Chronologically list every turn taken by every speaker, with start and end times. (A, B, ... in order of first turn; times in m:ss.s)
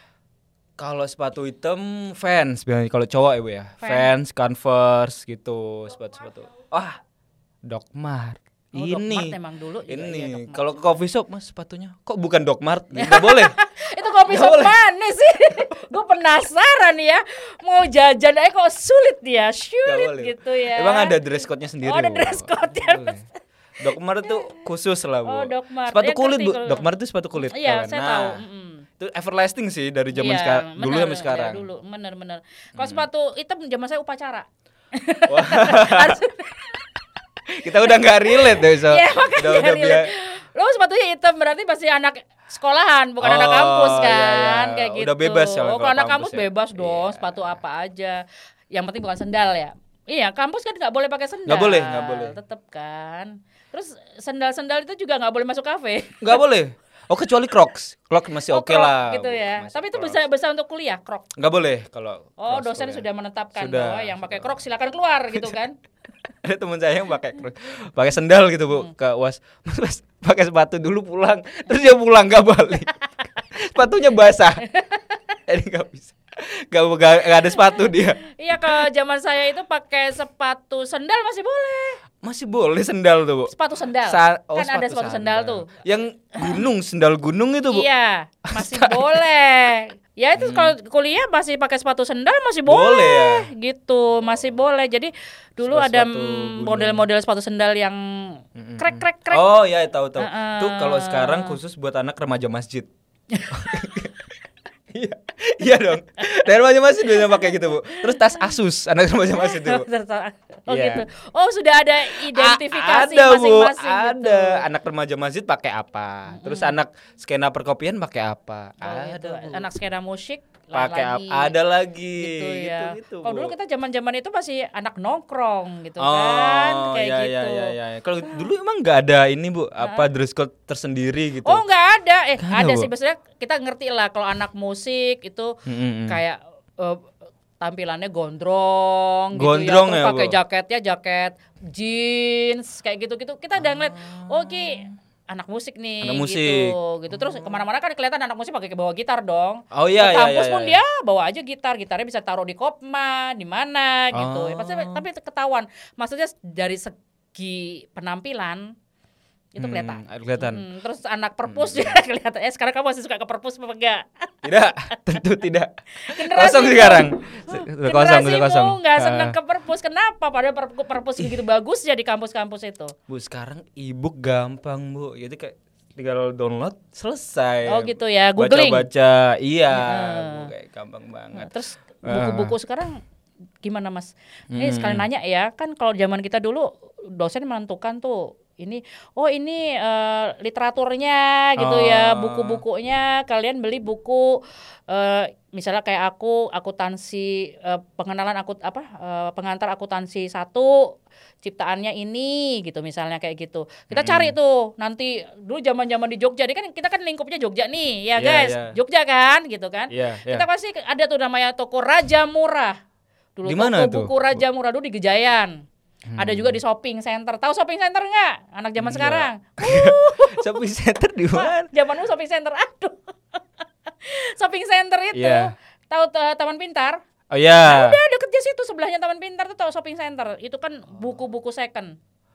0:00.8-0:07.0 A
0:03.8-0:04.1 B
0:07.7-0:09.4 A
0:08.8-0:10.7 B
0:09.9-0:13.5 A
0:12.9-0:21.2 B
0:14.3-0:14.8 A
0:19.9-0:23.2 A
0:21.8-0:23.3 B
0:23.8-0:28.4 A
0:24.3-0:24.6 B
0:25.2-0:26.9 B
0:27.4-0:28.8 B
0:29.0-0:31.7 A
0:30.1-0:36.9 B
0:32.8-0:33.0 A
0:35.3-0:36.2 A
0:37.6-0:40.1 A
0:37.8-0:56.4 B
0:43.2-0:47.6 A
0:51.5-0:52.4 A
0:56.2-1:00.2 A
0:58.5-1:01.3 B
1:01.4-1:03.0 A
1:02.4-1:05.8 B
1:03.6-1:04.6 A
1:06.4-1:14.7 A
1:14.6-1:15.2 B
1:15.5-1:18.2 A
1:18.3-1:22.0 B
1:22.2-1:23.5 A
1:23.5-1:25.7 B
1:24.0-1:27.9 A
1:26.4-1:26.6 B
1:27.7-1:39.4 B
1:28.5-1:29.2 A
1:30.4-1:30.7 A
1:32.7-1:33.5 A
1:35.7-1:37.0 A
1:38.6-1:42.9 A
1:40.2-1:41.6 B
1:43.3-1:43.9 B
1:43.5-1:44.3 A
1:44.9-1:49.9 A
1:47.0-1:48.5 B
1:49.3-1:54.6 B
1:50.7-1:51.0 A
1:52.1-1:59.7 A
1:56.3-1:56.8 B
1:58.8-2:01.6 B
2:00.7-2:03.5 A
2:02.2-2:08.4 B
2:06.0-2:11.6 A
2:09.8-2:10.1 B
2:11.4-2:15.6 B
2:12.4-2:12.9 A
2:15.7-2:16.2 A
2:16.1-2:17.1 B
2:17.6-2:38.7 B
2:19.4-2:20.4 A
2:23.6-2:24.9 A
2:26.0-2:27.6 A
2:29.7-2:30.8 A
2:34.1-2:35.0 A
2:39.6-2:44.3 B
2:39.6-2:40.6 A
2:41.5-2:42.0 A
2:44.4-2:49.4 A
2:46.0-2:52.9 B
2:53.1-3:01.5 A
2:57.7-2:58.9 B
2:59.7-3:00.5 B
3:01.3-3:03.0 B
3:02.1-3:02.5 A
3:03.6-3:32.8 B
3:04.5-3:05.1 A
3:11.6-3:12.6 A
3:23.9-3:24.4 A
3:28.2-3:28.8 A
3:29.9-3:30.5 A
3:33.4-3:35.6 B
3:33.5-3:34.4 A
3:36.1-3:36.6 A
3:36.2-3:40.7 B
3:38.8-3:41.7 A
3:41.3-3:43.0 B
3:44.0-3:47.0 B
3:45.1-3:45.5 A
3:47.3-3:48.0 A
3:47.7-3:52.0 B